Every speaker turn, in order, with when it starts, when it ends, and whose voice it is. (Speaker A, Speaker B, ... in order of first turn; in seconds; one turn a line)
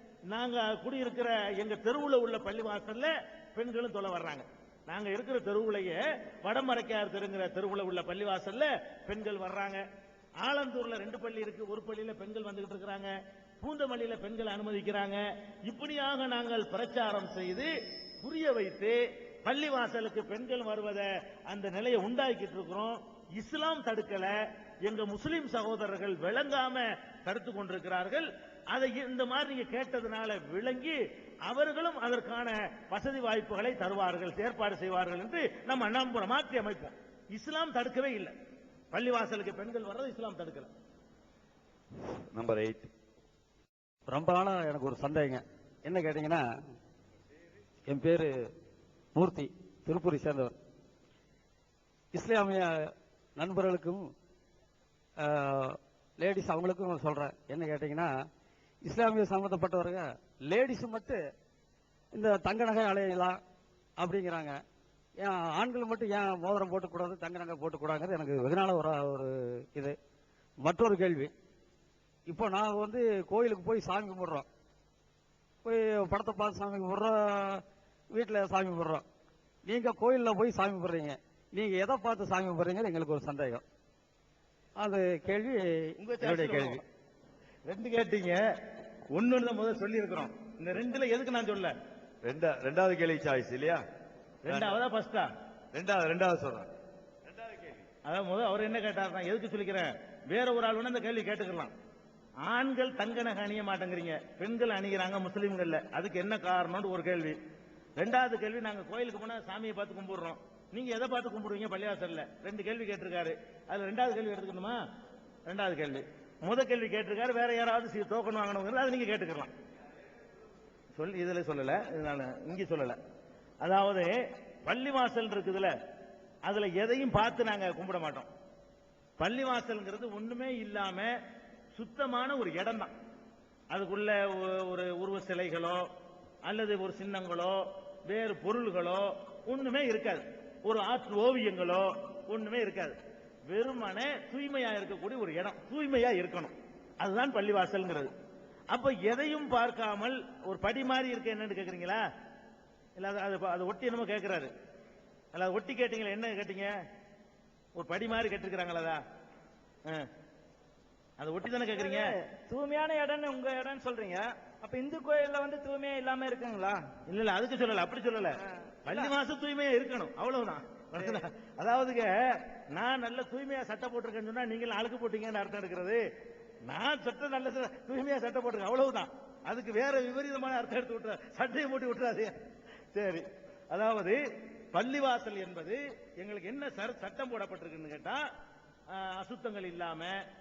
Speaker A: 0.3-9.8
Speaker A: 10.4-17.7
Speaker A: 18.2-24.3
Speaker A: 24.9-38.3
Speaker A: 38.9-40.7
Speaker B: 42.3-42.9
Speaker C: 44.1-46.4
Speaker C: 47.9-48.3
Speaker C: 49.1-50.5
Speaker C: 52.1-54.0
Speaker C: 55.2-58.1
Speaker C: 58.8-61.2
Speaker C: 62.1-63.4
Speaker C: 64.0-64.6
Speaker C: 65.2-70.0
Speaker C: 70.6-71.3
Speaker C: 72.3-74.5
Speaker C: 75.6-79.0
Speaker C: 79.7-83.6
Speaker C: 84.8-86.8
Speaker A: 86.0-86.8
Speaker A: 87.7-88.4
Speaker A: 89.1-91.7
Speaker B: 92.2-93.8
Speaker A: 94.4-95.2
Speaker B: 94.5-94.8
Speaker B: 95.7-96.7
Speaker B: 97.3-97.8
Speaker A: 98.0-101.7
Speaker A: 102.4-107.3
Speaker A: 108.0-114.8
Speaker A: 115.5-119.5
Speaker A: 120.9-123.0
Speaker A: 123.6-124.1
Speaker A: 124.6-125.7
Speaker A: 126.4-128.3
Speaker A: 129.2-131.1
Speaker A: 131.7-132.9
Speaker A: 133.7-135.8
Speaker A: 136.4-142.9
Speaker A: 143.5-148.1
Speaker A: 148.7-152.0
Speaker A: 153.0-154.5
Speaker A: 155.3-156.7
Speaker A: 157.8-159.0
Speaker A: 161.2-162.2
Speaker D: 161.8-166.9
Speaker A: 167.1-176.0
Speaker A: 176.7-182.3
Speaker A: 182.9-184.2
Speaker A: 184.7-188.2
Speaker A: 188.9-190.2